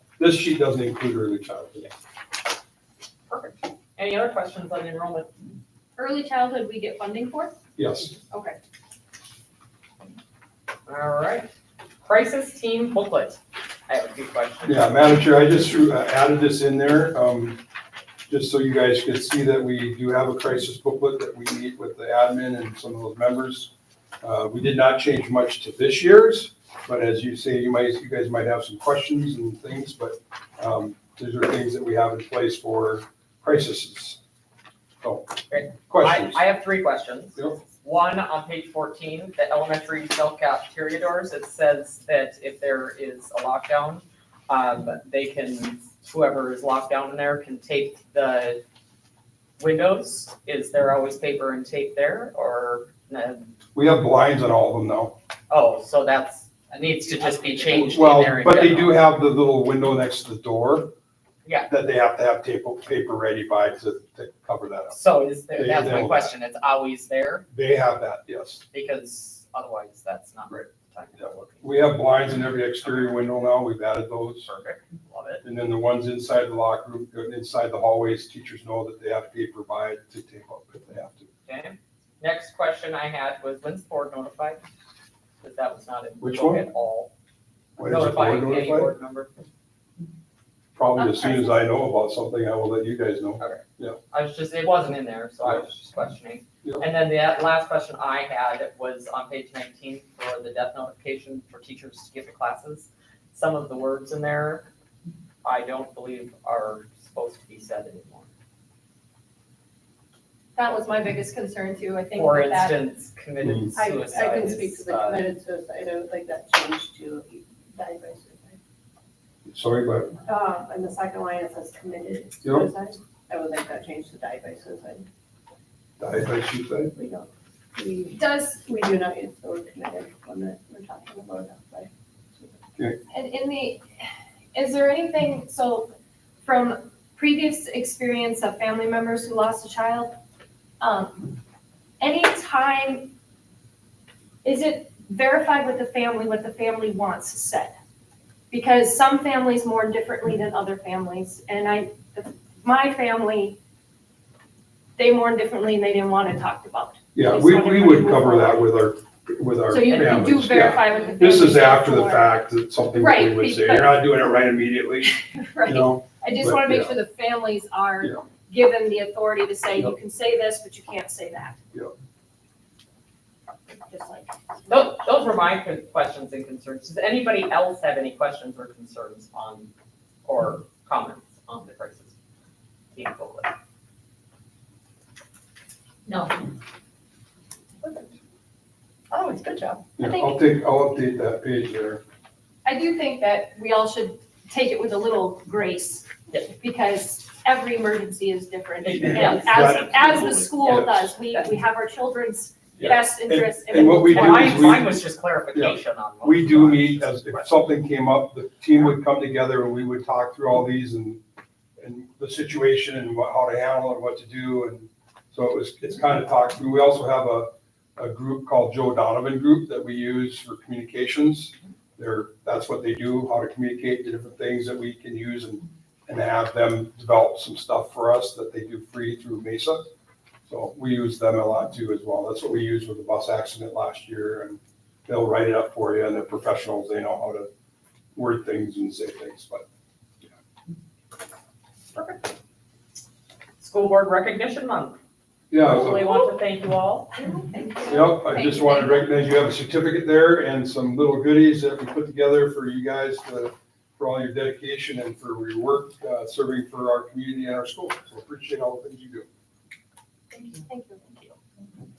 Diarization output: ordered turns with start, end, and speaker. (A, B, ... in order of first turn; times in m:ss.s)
0:00.2-0:01.9 A
0:03.3-0:05.3 B
0:06.0-0:07.6 C
0:07.8-0:08.1 A
0:08.2-0:08.6 C
0:10.9-0:11.5 B
0:12.0-0:14.9 B
0:14.6-0:17.6 A
0:18.3-0:34.2 A
0:35.0-0:35.3 A
0:35.5-0:48.6 B
0:35.8-0:36.4 A
0:49.6-0:53.5 B
0:53.7-0:55.1 A
0:55.5-0:59.0 B
0:57.7-1:00.9 A
1:01.4-1:01.7 B
1:01.7-1:06.3 A
1:04.9-1:07.4 B
1:07.5-1:08.6 A
1:08.7-1:11.8 B
1:11.2-1:14.5 A
1:12.8-1:13.2 B
1:14.4-1:15.4 B
1:15.4-1:21.3 A
1:21.5-1:24.6 B
1:25.4-1:27.1 B
1:26.2-1:26.6 A
1:27.8-1:28.9 A
1:27.8-1:29.4 B
1:30.8-1:34.0 A
1:31.0-1:31.6 C
1:33.4-1:44.7 B
1:45.4-1:48.3 B
1:50.5-1:52.8 C
1:52.1-1:55.3 B
1:53.4-1:53.7 A
1:53.8-1:58.6 D
1:59.4-2:00.2 A
2:00.2-2:05.0 D
2:06.0-2:06.9 A
2:06.9-2:12.5 D
2:08.2-2:08.6 C
2:13.1-2:13.8 C
2:14.5-2:20.2 C
2:20.8-2:21.4 C
2:22.0-2:23.1 C
2:24.4-2:27.8 C
2:28.5-2:33.6 C
2:35.0-2:38.7 C
2:37.1-2:46.9 A
2:39.7-2:42.4 C
2:43.0-2:44.0 C
2:45.2-2:51.6 C
2:53.8-2:54.9 C
2:54.7-2:59.7 B
3:00.2-3:02.1 B
3:02.9-3:03.5 B
3:06.0-3:06.4 B
3:07.8-3:08.1 B
3:09.1-3:09.9 B
3:10.0-3:12.0 A
3:10.0-3:10.4 C
3:12.6-3:24.9 C
3:18.8-3:20.8 B
3:19.0-3:20.9 A
3:22.8-3:25.0 A
3:24.0-3:27.5 B
3:25.5-3:31.2 A
3:31.8-3:49.8 A
3:50.5-3:57.5 A
3:58.2-3:59.6 A
4:01.9-4:02.3 B
4:03.6-4:05.0 B
4:05.5-4:06.0 A
4:05.5-4:07.1 B
4:07.2-4:09.1 C
4:07.9-4:19.3 A
4:20.3-4:21.2 C